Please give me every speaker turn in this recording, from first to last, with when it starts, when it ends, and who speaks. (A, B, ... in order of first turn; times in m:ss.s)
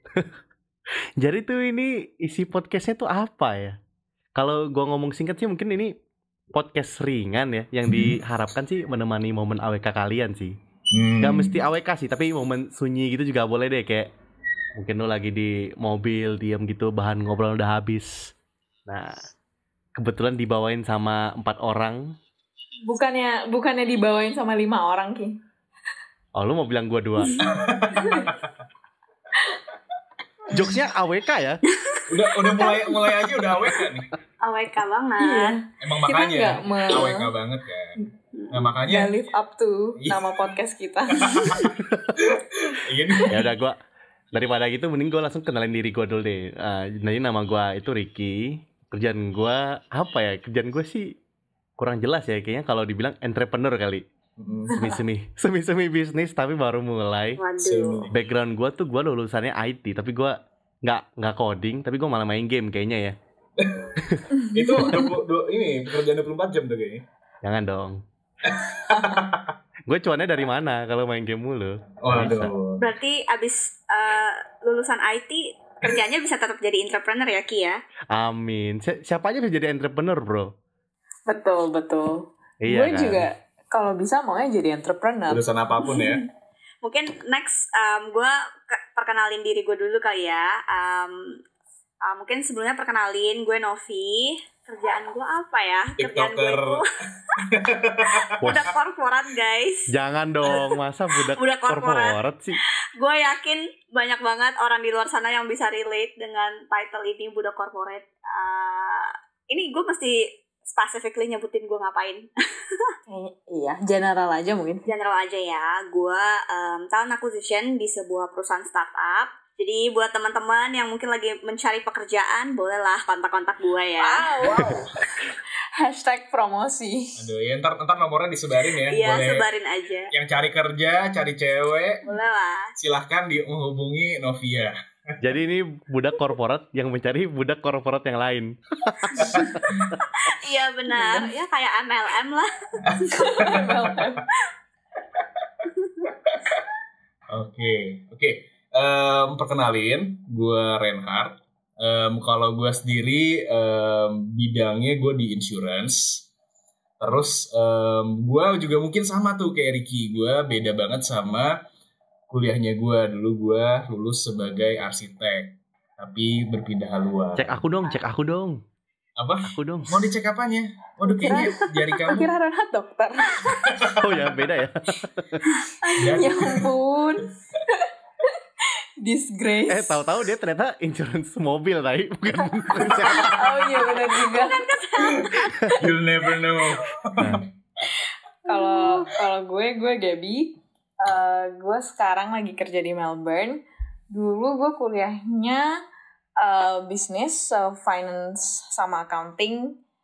0:01.2-0:03.8 A
0:04.4-0:05.9 A
0:06.5-0:10.5 A
0:07.9-0:08.2 B
0:10.9-0:11.6 B
0:11.2-0:14.1 A
0:14.8-0:18.1 A
0:20.0-0:22.1 A
0:22.8-0:25.4 C
0:26.4-0:27.4 A
0:27.4-0:28.4 B
0:28.0-0:28.2 C
0:30.5-0:31.6 A
0:32.1-0:34.1 B
0:32.5-0:33.1 D
0:34.4-0:35.6 D
0:35.2-0:37.3 C
0:35.8-0:38.0 B
0:38.4-0:38.7 D
0:38.5-0:39.1 B
0:38.9-0:41.6 C
0:40.0-0:40.3 B
0:41.2-0:43.5 B
0:43.3-0:43.8 A
0:44.3-0:51.1 A
0:51.8-0:54.0 A
0:54.4-0:54.9 B
0:54.7-0:57.4 A
0:57.4-0:58.1 D
0:57.6-0:58.1 B
0:58.1-1:03.1 A
1:03.6-1:04.0 B
1:04.4-1:05.0 C
1:04.5-1:07.0 B
1:07.4-1:08.0 A
1:08.5-1:09.5 B
1:09.9-1:12.5 A
1:12.0-1:12.8 B
1:12.8-1:17.8 D
1:18.1-1:20.5 A
1:21.3-1:25.4 C
1:22.6-1:23.2 A
1:25.3-1:26.2 B
1:25.8-1:26.2 D
1:26.8-1:31.1 D
1:32.0-1:36.8 D
1:36.0-1:36.8 B
1:37.4-1:38.7 B
1:38.4-1:39.8 D
1:38.4-1:38.7 A
1:39.9-1:42.6 A
1:41.4-1:42.2 D
1:43.0-1:52.9 D
1:53.1-1:54.8 C
1:54.9-2:04.3 D
2:04.0-2:04.8 C
2:05.8-2:07.2 C
2:07.2-2:09.5 B
2:08.8-2:10.1 D
2:10.1-2:12.0 B
2:12.0-2:12.7 D
2:12.8-2:15.1 B
2:15.2-2:19.5 A
2:19.2-2:19.7 B
2:20.3-2:22.5 D
2:20.9-2:21.3 C
2:22.9-2:24.0 B
2:23.1-2:24.2 C
2:27.3-2:36.3 B
2:37.0-2:41.5 B
2:42.3-2:47.6 B
2:47.4-2:48.6 A
2:49.2-2:52.3 B
2:49.4-2:50.0 A
2:51.0-2:53.4 C
2:53.6-2:54.3 B
2:54.0-2:55.4 A
2:55.8-2:56.3 D
2:55.9-2:57.8 C
2:56.0-2:56.7 B
2:59.0-3:00.0 C
2:59.7-3:03.5 A
3:03.2-3:04.6 C
3:03.3-3:05.6 D
3:05.7-3:07.4 B
3:07.2-3:07.4 A
3:08.4-3:15.7 C
3:08.5-3:08.9 D
3:16.4-3:19.8 C